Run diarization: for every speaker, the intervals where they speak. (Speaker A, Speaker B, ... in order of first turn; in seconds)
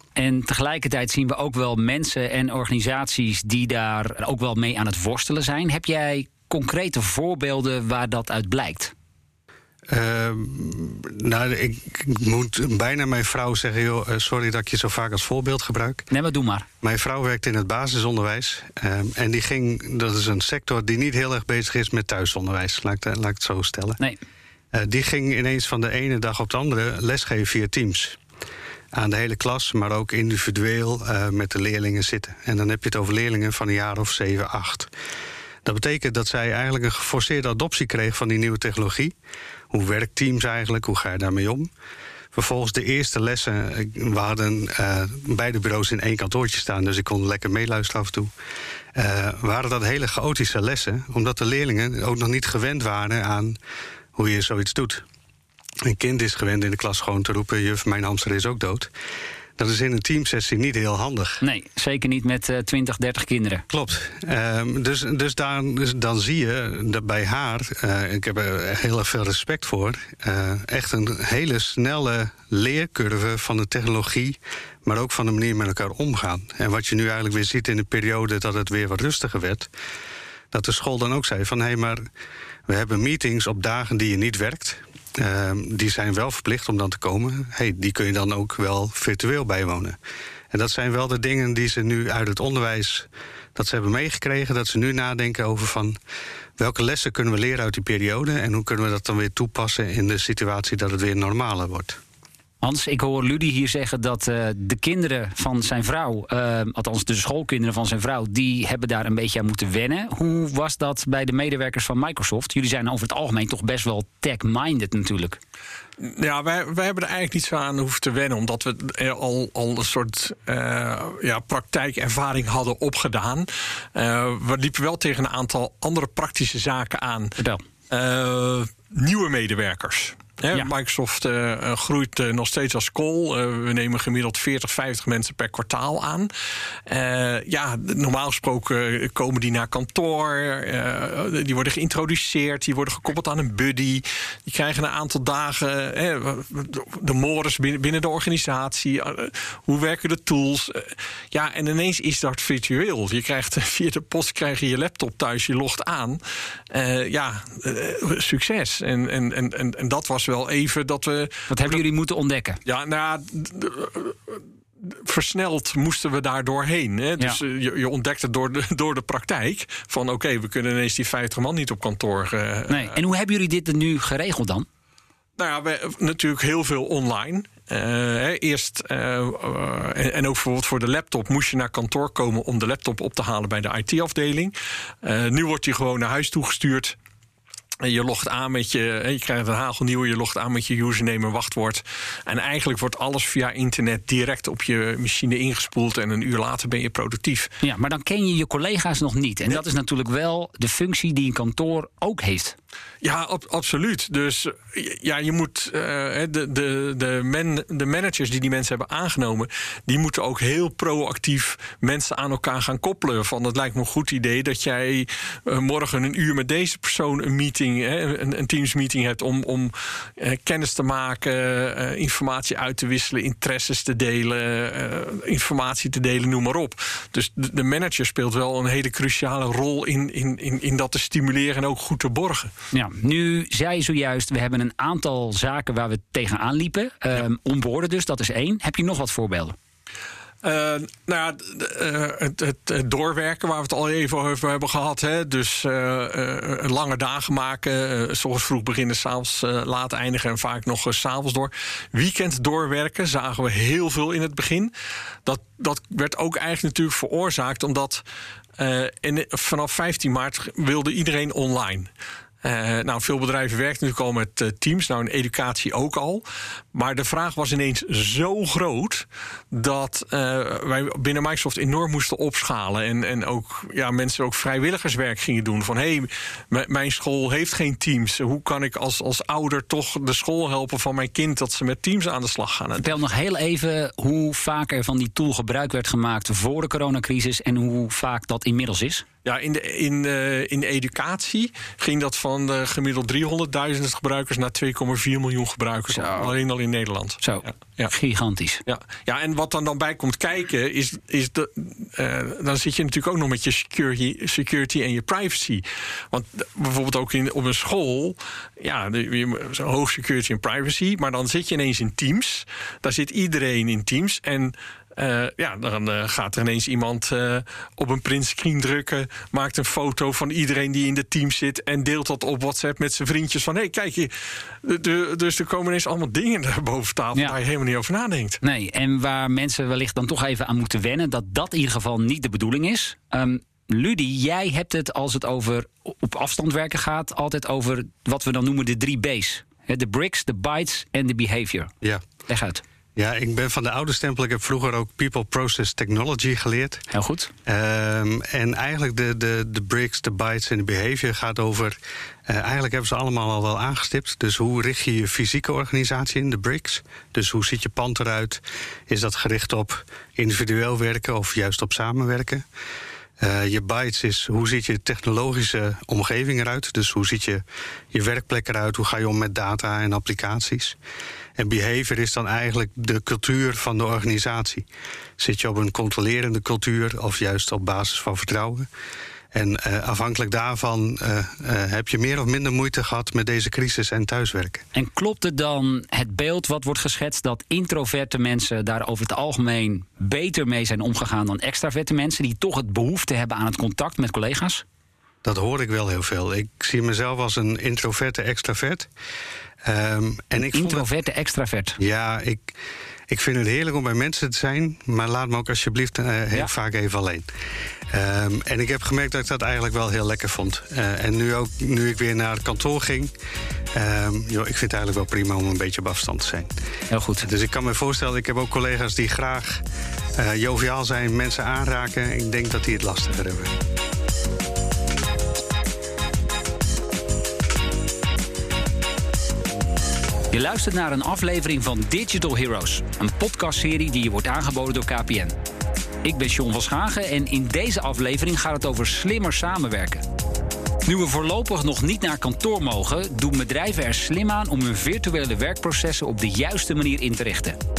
Speaker A: 0.2-8.9, 16.1-16.7, 61.4-63.7, 102.6-115.4, 161.5-162.6, 172.7-174.7, 197.6-202.6, 232.7-239.6, 282.8-289.1, 295.9-296.3, 297.2-298.6, 328.4-341.7, 342.3-342.6, 346.9-347.3, 384.7-394.6, 400.5-401.8, 416.9-417.3, 430.3-435.4, 436.0-440.0, 440.9-447.6
Speaker B: 9.9-16.1, 16.8-24.0, 24.7-28.2, 28.9-34.9, 35.6-39.1, 39.7-41.7, 42.3-48.3, 49.0-53.6, 54.1-55.0, 55.8-58.9, 59.6-61.4, 63.7-79.7, 80.5-82.0, 82.7-90.0, 90.5-96.0, 96.6-102.0, 343.0-346.9, 347.5-351.8, 352.3-362.4, 363.2-370.8, 371.4-374.7, 375.2-378.7, 379.3-384.6, 395.2-398.9, 399.6-400.9, 401.8-402.5, 403.1-407.3, 407.9-413.1, 413.7-416.5, 417.2-419.6, 420.2-423.5
Speaker C: 116.0-127.4, 127.9-136.3, 136.9-161.8, 162.7-173.0, 175.4-187.0, 187.8-197.5, 203.0-232.5, 240.4-254.7, 255.2-258.0, 258.6-261.9, 262.4-283.0, 289.2-297.9, 298.7-328.4